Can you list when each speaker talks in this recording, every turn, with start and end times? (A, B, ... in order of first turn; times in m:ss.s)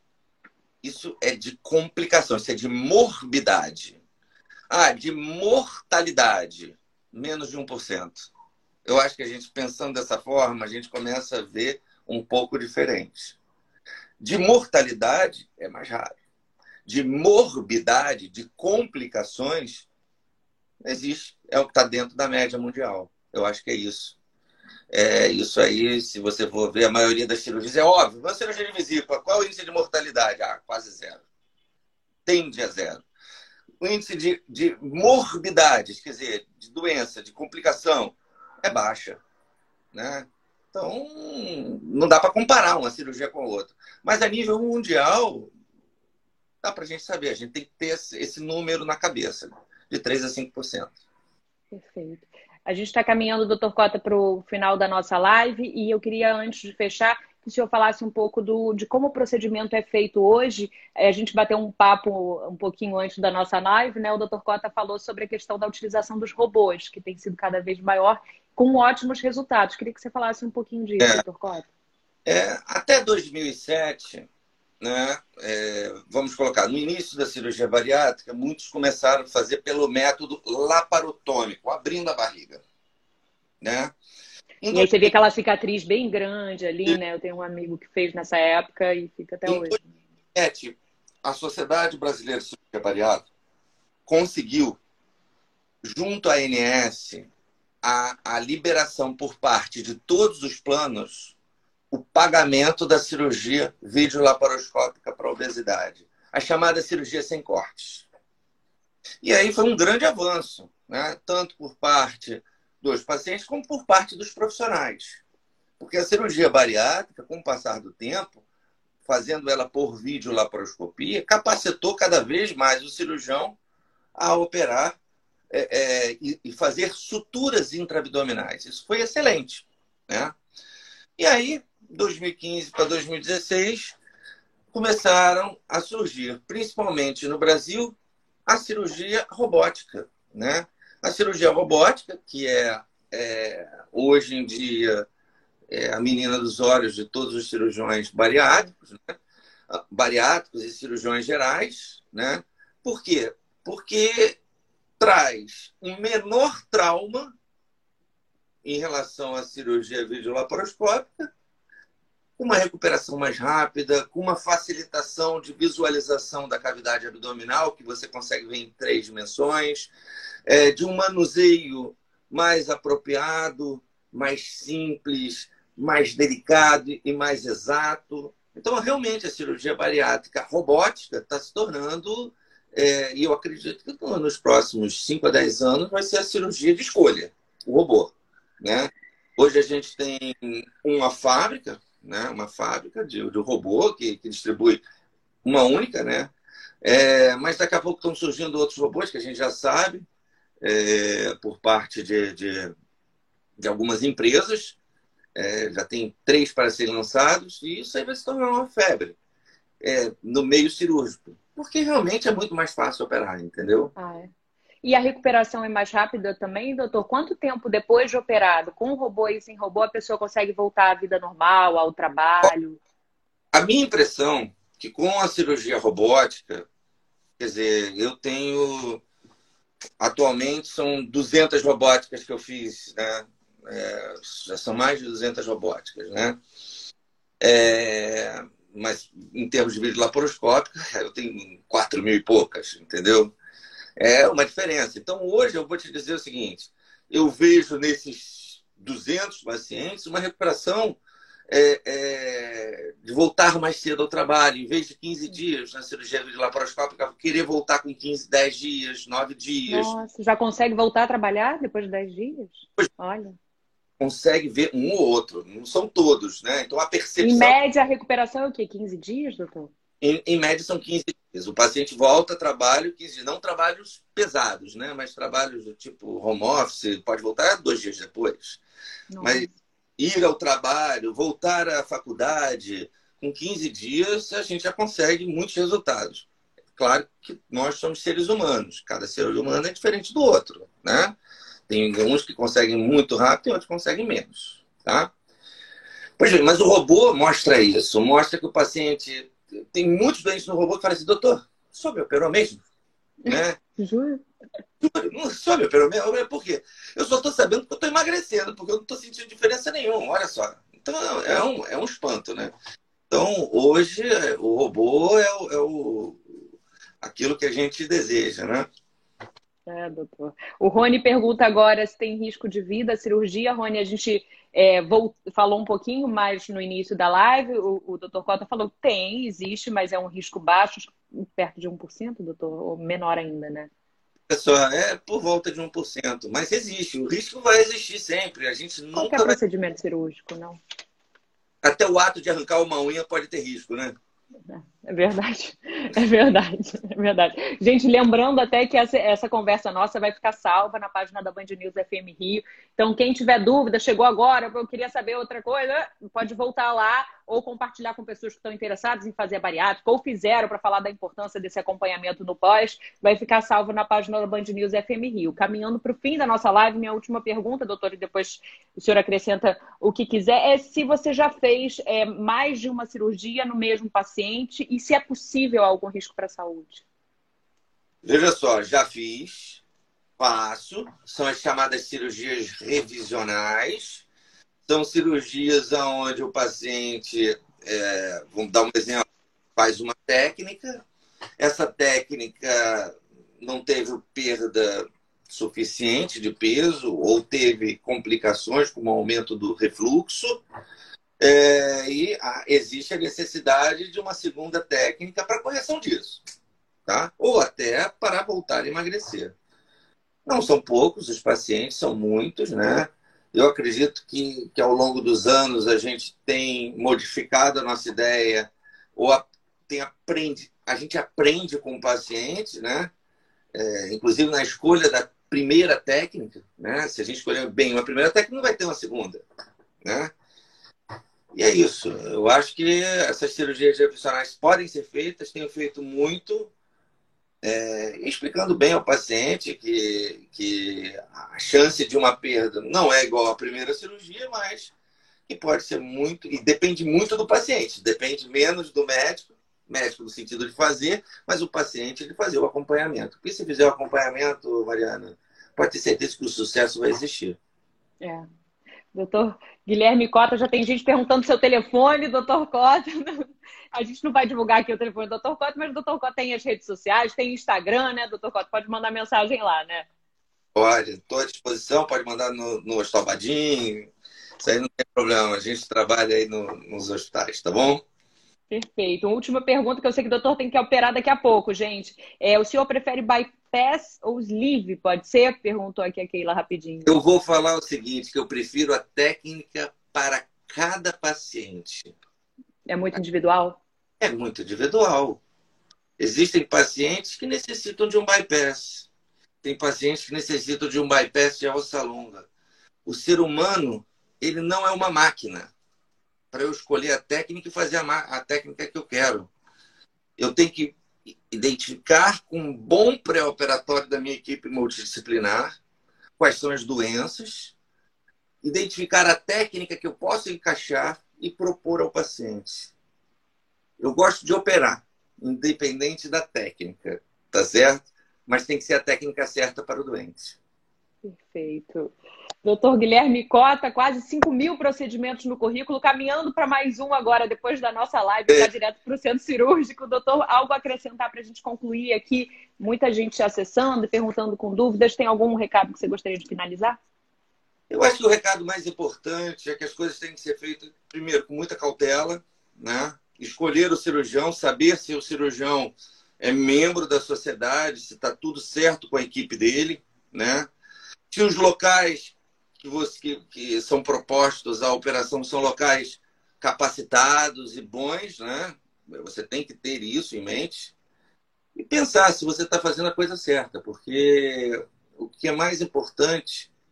0:00.8-0:04.0 A
0:04.7-0:08.3 A
0:08.8-0:13.4 A
0:14.2-0:16.2 A
0:16.8-0:19.9 A
0:20.8-0:24.2 A
0:24.9-0:31.2 A
0:32.2-0:33.0 A
0:33.8-0:39.2 A
0:39.9-0:45.5 A
0:46.6-0:50.9 A
0:51.7-1:11.7 B
1:12.2-1:14.3 A
1:14.8-1:22.6 A
1:23.6-1:23.9 A
1:24.6-1:25.1 A
1:24.7-1:29.9 B
1:29.4-1:29.8 A
1:30.3-1:33.3 A
1:34.1-1:34.8 A
1:35.8-1:37.3 A
1:37.8-1:41.4 A
1:41.9-1:48.1 A
1:49.2-1:55.2 A
1:55.8-1:58.4 A
1:59.0-2:03.6 A
2:04.1-2:05.0 A
2:05.5-2:10.3 A
2:11.2-2:14.0 A
2:14.7-2:18.0 A
2:18.5-2:25.0 A
2:25.7-2:29.2 A
2:29.7-2:34.4 A
2:35.0-2:37.3 A
2:38.6-2:41.3 A
2:42.4-2:49.9 A
2:50.5-3:14.8 A
3:15.4-3:16.3 A
3:16.8-3:20.0 A
3:20.6-3:22.7 A
3:23.6-3:24.8 A
3:25.3-3:29.2 A
3:29.8-3:33.9 A
3:34.0-3:34.3 B
3:34.8-3:42.8 B
3:43.5-3:46.7 A
3:47.4-3:49.0 A
3:50.0-3:56.4 A
3:57.4-4:03.3 A
4:04.0-4:19.9 A
4:19.7-4:23.4 B
4:24.0-4:27.5 A
4:27.2-4:29.7 B
4:30.0-4:38.6 A
4:39.1-4:39.5 B
4:39.2-4:39.5 A
4:40.0-4:51.2 A
4:51.7-4:55.1 A
4:56.2-5:02.6 A
5:03.2-5:04.2 B
5:03.3-5:03.6 A
5:04.8-5:12.5 A
5:13.1-5:16.2 A
5:17.0-5:18.7 A
5:19.7-5:33.7 B
5:34.3-5:39.4 A
5:38.9-5:40.6 B
5:41.6-5:43.9 A
5:44.5-6:16.8 B
6:18.0-6:19.6 A
6:20.2-6:24.0 A
6:24.7-6:30.8 A
6:31.4-6:40.4 A
6:41.2-6:46.2 A
6:46.8-6:49.3 A
6:50.2-7:02.9 A
7:03.5-7:09.2 A
7:09.8-7:10.1 A
7:11.3-7:16.5 A
7:17.4-7:24.7 A
7:25.3-7:37.4 A
7:38.0-7:38.2 B
7:38.9-7:49.8 B
7:50.5-7:57.8 A
7:58.5-8:07.0 B
8:06.8-8:11.9 A
8:12.7-8:13.6 B
8:14.0-8:15.2 A
8:16.0-8:18.9 A
8:19.4-8:22.3 A
8:22.8-8:25.5 A
8:26.3-8:29.3 A
8:30.2-8:35.5 A
8:36.2-8:37.5 A
8:38.4-8:42.7 A
8:43.8-8:50.4 A
8:51.0-8:51.9 B
8:52.4-9:06.8 B
9:07.7-9:20.5 A
9:21.1-9:30.7 A
9:31.5-9:36.5 A